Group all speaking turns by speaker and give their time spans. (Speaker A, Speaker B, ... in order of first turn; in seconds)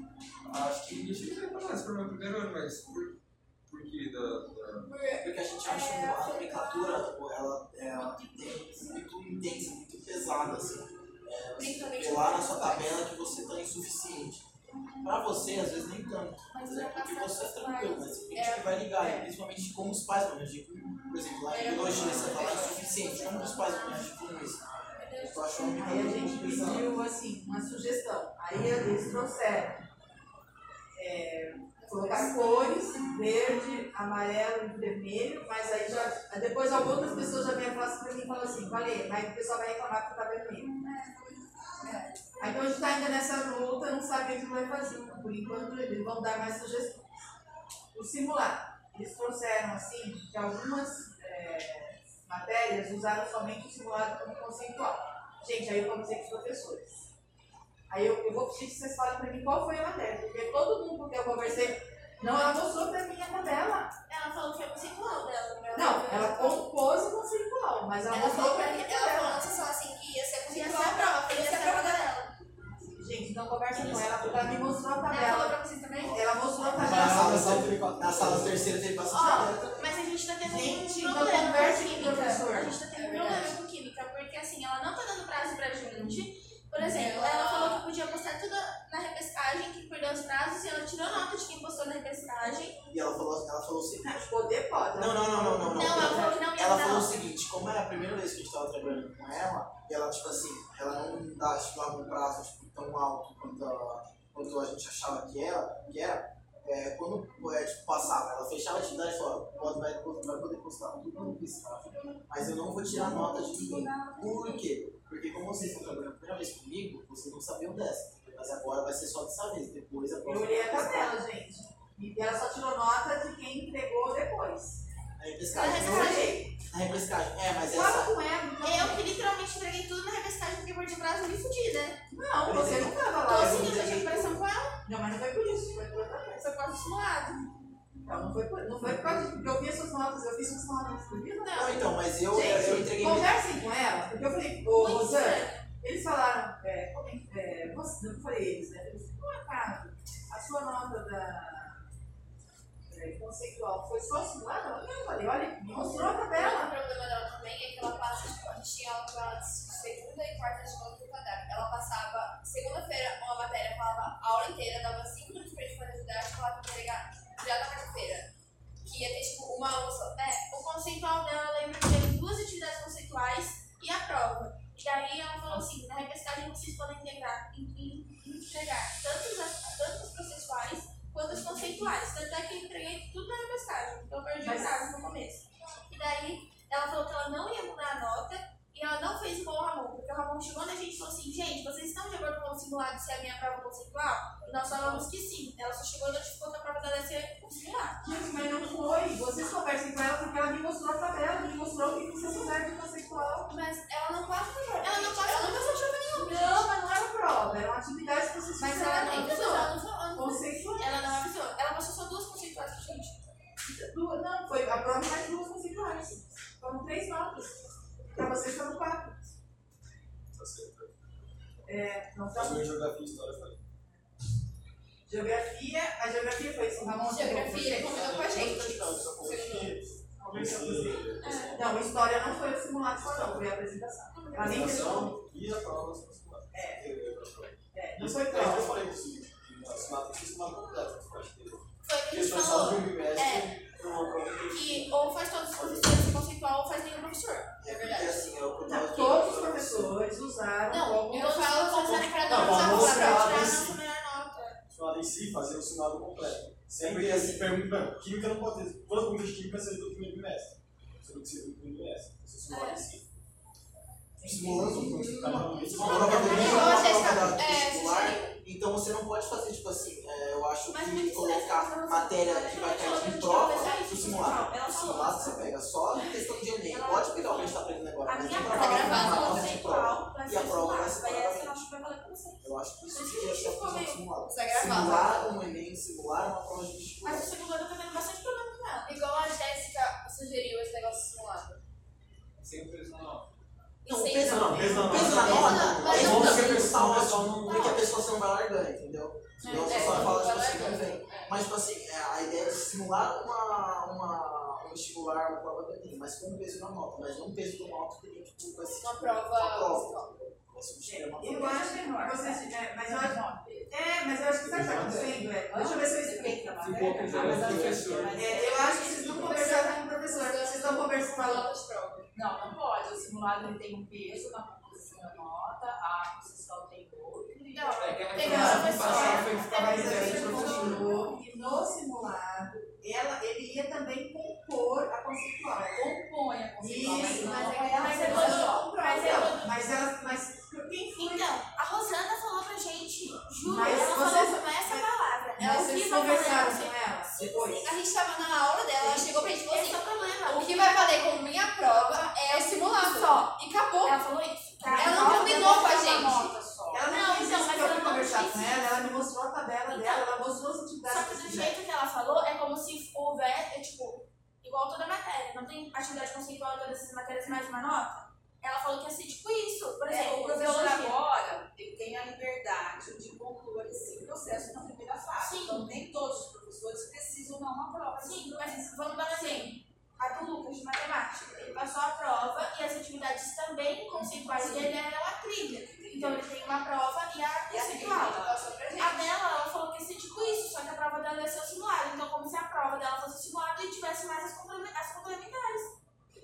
Speaker A: 0.5-4.9, 292.4-293.3, 316.6-318.2, 327.8-330.5
Speaker B: 4.9-5.2, 11.6-13.0, 18.4-19.2, 21.5-23.9, 65.7-66.6, 68.1-72.3, 83.0-83.5, 86.8-87.8, 155.7-168.3, 168.8-170.4, 203.5-206.4, 208.6-210.4, 226.9-229.8, 242.2-242.7, 247.6-248.4, 250.7-253.9, 262.5-262.8, 265.8-268.4, 278.4-279.5, 284.3-285.3, 288.9-291.6, 293.9-296.7, 299.5-301.4, 308.8-310.1, 318.8-322.1, 328.2-329.0, 336.9-339.3, 345.4-353.9, 354.7-356.3
Speaker C: 5.1-7.0, 8.0-8.3, 16.5-18.7, 21.5-24.1, 25.0-26.7, 31.9-32.8, 40.6-42.6, 64.1-66.3, 70.5-72.3, 75.1-76.3, 79.1-92.8, 95.7-97.2, 112.9-114.7, 125.5-126.4, 128.6-132.0, 133.1-134.8, 136.4-137.4, 144.7-145.6, 170.4-198.0, 204.7-206.6, 208.6-209.8, 210.8-213.3, 231.2-231.6, 234.2-234.9, 241.9-243.7, 244.5-247.5, 251.6-254.6, 262.5-262.8, 265.8-266.8, 270.7-284.1, 287.0-289.0, 299.6-300.0, 318.2-319.7, 327.5-331.0, 337.0-339.6, 341.0-346.7, 348.8-356.1, 356.9-358.9, 359.7-360.0, 360.9-371.0, 375.2-375.8, 378.0-395.7
Speaker D: 5.2-14.5, 15.0-26.9, 76.8-80.0, 92.9-94.2, 95.0-121.2, 125.2-126.2, 126.7-128.1, 132.5-134.3, 141.5-143.4, 242.8-243.4, 247.6-249.9, 256.8-257.6, 264.2-281.7, 282.4-287.3, 293.9-311.7
Speaker E: 25.8-29.8, 30.9-40.7, 42.4-47.1, 47.9-57.1, 57.9-63.9, 65.7-69.5, 72.9-77.7, 79.1-79.5, 80.4-83.4, 94.0-96.4, 120.2-124.8, 125.5-126.5, 127.7-129.1, 132.1-133.9, 134.8-136.4, 138.1-151.8, 152.9-156.8, 181.3-181.7, 184.4-184.9, 198.0-203.5, 206.2-211.2, 213.6-217.6, 218.1-219.3, 221.7-222.8, 225.1-228.2, 230.2-231.0, 231.5-235.1, 236.5-236.9, 237.7-238.8, 248.7-251.9, 264.2-265.1, 311.0-316.6, 318.1-321.5, 328.2-335.9, 336.6-341.3, 343.4-347.7, 356.7-361.6
Speaker F: 73.7-74.6, 76.7-78.8, 220.3-221.3, 222.3-223.6, 227.7-231.7, 232.9-233.5, 234.4-245.9, 251.9-253.8, 254.7-263.1, 264.6-267.5, 294.3-297.7, 299.4-300.2, 314.4-315.3, 317.1-318.1, 319.0-319.3
Speaker G: 274.5-275.3, 310.9-313.7, 315.5-319.1, 322.1-331.0, 335.7-338.7, 354.6-356.9, 369.8-378.7, 384.0-384.7, 385.8-386.2, 387.5-389.1